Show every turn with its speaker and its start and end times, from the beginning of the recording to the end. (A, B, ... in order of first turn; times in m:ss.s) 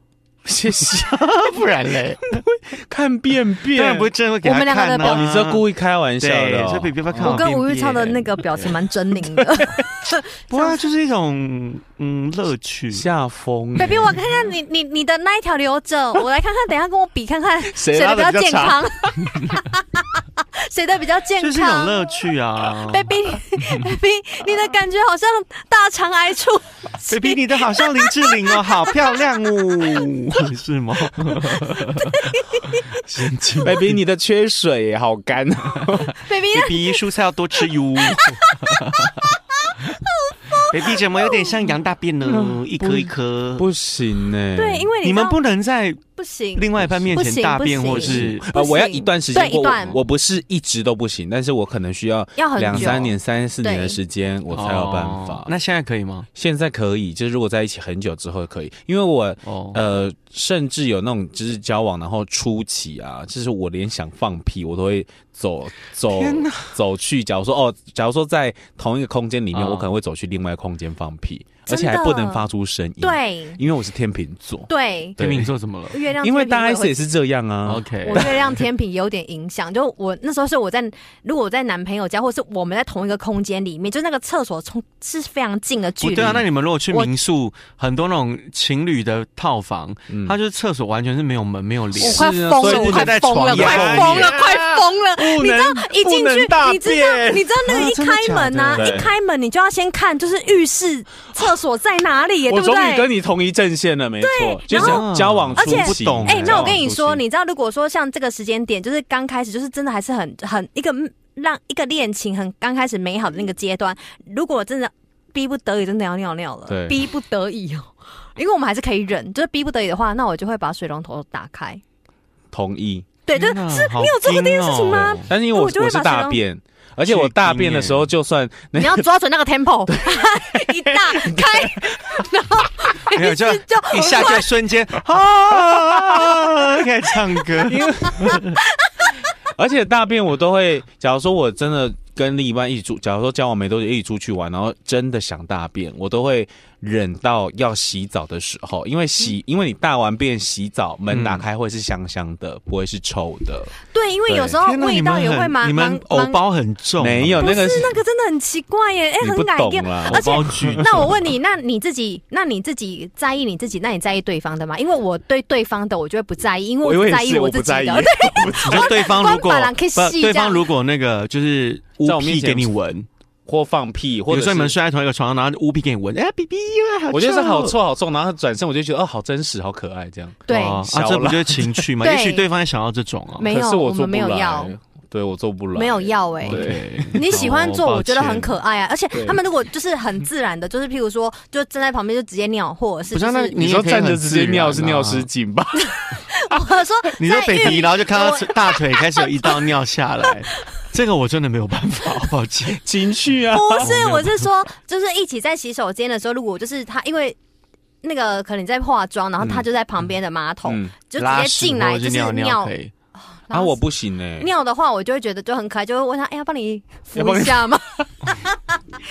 0:00.4-0:01.6 A
0:01.1-0:02.4 B
0:02.3-0:04.1 A
0:03.7-0:05.6 B
0:04.4-0:05.2 C
0:05.0-0:07.5 A
0:06.2-0:08.9 B
0:07.2-0:10.8 C
0:10.5-0:13.1 B
0:12.9-0:14.2 A
0:13.8-0:22.1 C
0:17.7-0:19.5 A
0:21.4-0:23.1 B
0:22.9-0:30.4 C
0:27.1-0:34.0 B
0:31.4-0:33.0 C
0:33.6-0:36.2 A
0:36.0-0:37.0 C
0:36.3-0:39.3 B
0:37.6-0:41.5 C
0:40.6-0:43.7 B
0:42.2-0:44.9 A
0:44.5-0:45.4 C
0:45.0-0:48.5 B
0:46.2-0:50.0 C
0:48.0-0:55.5 A
0:52.4-0:54.0 C
0:52.7-0:53.1 B
0:54.5-0:56.3 B
0:56.4-1:15.5 A
0:59.4-0:59.8 B
1:06.1-1:06.8 B
1:09.5-1:09.9 B
1:11.7-1:12.5 C
1:13.0-1:13.6 C
1:14.7-1:15.2 C
1:15.2-1:16.0 B
1:15.9-1:17.0 C
1:16.2-1:18.5 A
1:17.6-1:18.4 B
1:18.0-1:27.1 C
1:26.0-1:34.4 B
1:30.1-1:30.4 A
1:32.0-1:37.5 A
1:32.0-1:43.1 C
1:37.6-1:39.0 B
1:38.7-1:39.1 A
1:42.5-1:47.2 A
1:44.2-2:01.8 C
1:44.7-1:46.9 B
1:56.7-1:57.0 A
2:02.5-2:03.1 A
2:03.3-2:06.4 C
2:03.3-2:05.3 B
2:05.3-2:09.0 A
2:07.0-2:08.1 B
2:08.8-2:14.5 C
2:09.9-2:11.9 A
2:13.1-2:18.6 B
2:17.7-2:18.4 A
2:18.0-2:19.1 C
2:19.6-2:33.7 A
2:31.1-2:31.4 B
2:33.8-2:36.4 C
2:34.3-2:34.6 A
2:34.6-2:37.6 B
2:37.0-2:37.9 A
2:37.4-2:50.7 C
2:39.2-2:41.0 A
2:40.1-2:40.9 B
2:46.8-2:49.0 A
2:48.7-2:53.1 B
2:52.0-2:52.7 A
2:53.5-2:54.8 A
2:54.3-2:57.8 B
2:57.1-3:01.8 A
3:00.5-3:00.9 C
3:00.5-3:03.5 B
3:02.0-3:02.4 C
3:03.4-3:04.7 C
3:03.4-3:07.5 A
3:05.8-3:13.6 C
3:06.4-3:08.6 B
3:09.1-3:09.4 A
3:13.1-3:15.3 B
3:13.6-3:16.2 A
3:15.8-3:19.7 C
3:17.2-3:22.9 B
3:20.5-3:20.8 C
3:22.8-3:23.9 A
3:23.5-3:27.4 C
3:23.8-3:24.4 B
3:28.0-3:32.7 C
3:30.7-3:30.9 A
3:31.2-3:32.9 B
3:33.3-3:33.8 C
3:33.5-3:34.5 A
3:34.4-3:38.6 C
3:37.2-3:37.8 A